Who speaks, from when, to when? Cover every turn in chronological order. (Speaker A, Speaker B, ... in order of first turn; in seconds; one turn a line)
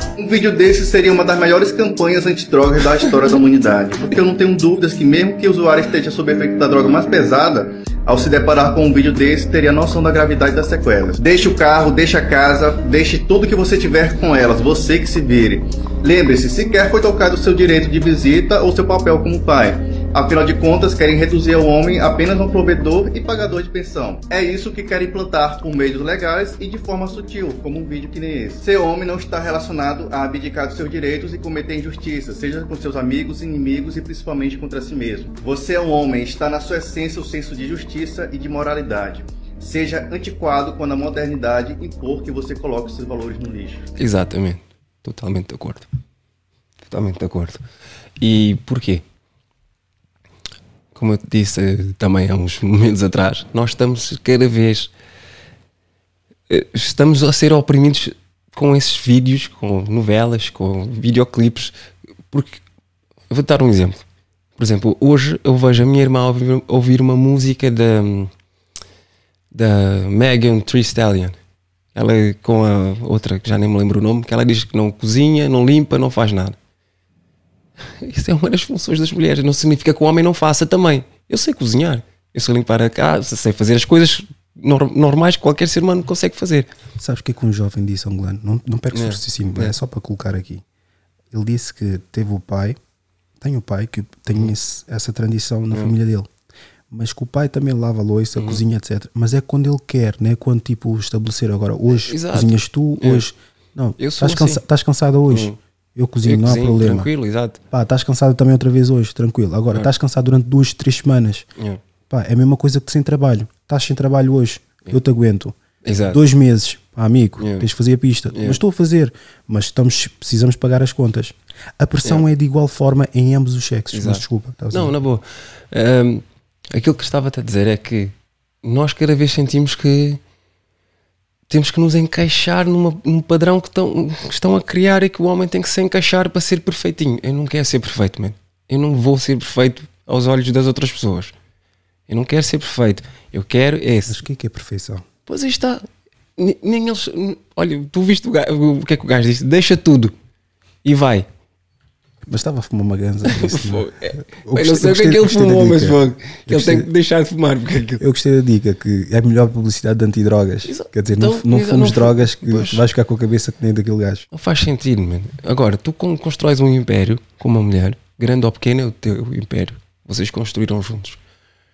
Speaker A: 0.2-43.9
Speaker B: 44.0-45.9
Speaker B: 46.9-47.6
Speaker B: 48.2-49.0
Speaker B: 50.9-54.9
Speaker B: 56.5-61.8
Speaker B: 62.3-62.6
Speaker B: 63.3-64.0
Speaker B: 64.6-68.3
Speaker B: 69.5-71.4
Speaker B: 72.0-76.6
Speaker B: 78.0-86.7
Speaker C: 87.0-90.6
Speaker B: 88.9-89.7
Speaker C: 91.3-92.8
Speaker C: 93.4-96.3
Speaker C: 96.9-107.1
Speaker B: 101.9-103.2
Speaker B: 104.0-104.6
Speaker B: 105.3-105.6
Speaker B: 106.2-107.6
Speaker C: 107.7-111.5
Speaker C: 112.1-115.5
Speaker B: 115.8-116.2
Speaker C: 116.1-124.9
Speaker B: 117.4-117.7
Speaker B: 118.3-118.6
Speaker B: 123.9-130.2
Speaker B: 131.5-141.3
Speaker B: 142.1-144.2
Speaker C: 144.1-145.1
Speaker B: 145.3-145.8
Speaker B: 146.4-150.1
Speaker B: 150.8-151.3
Speaker C: 152.2-156.9
Speaker B: 153.3-158.0
Speaker C: 158.0-164.3
Speaker B: 160.7-162.8
Speaker B: 164.3-171.2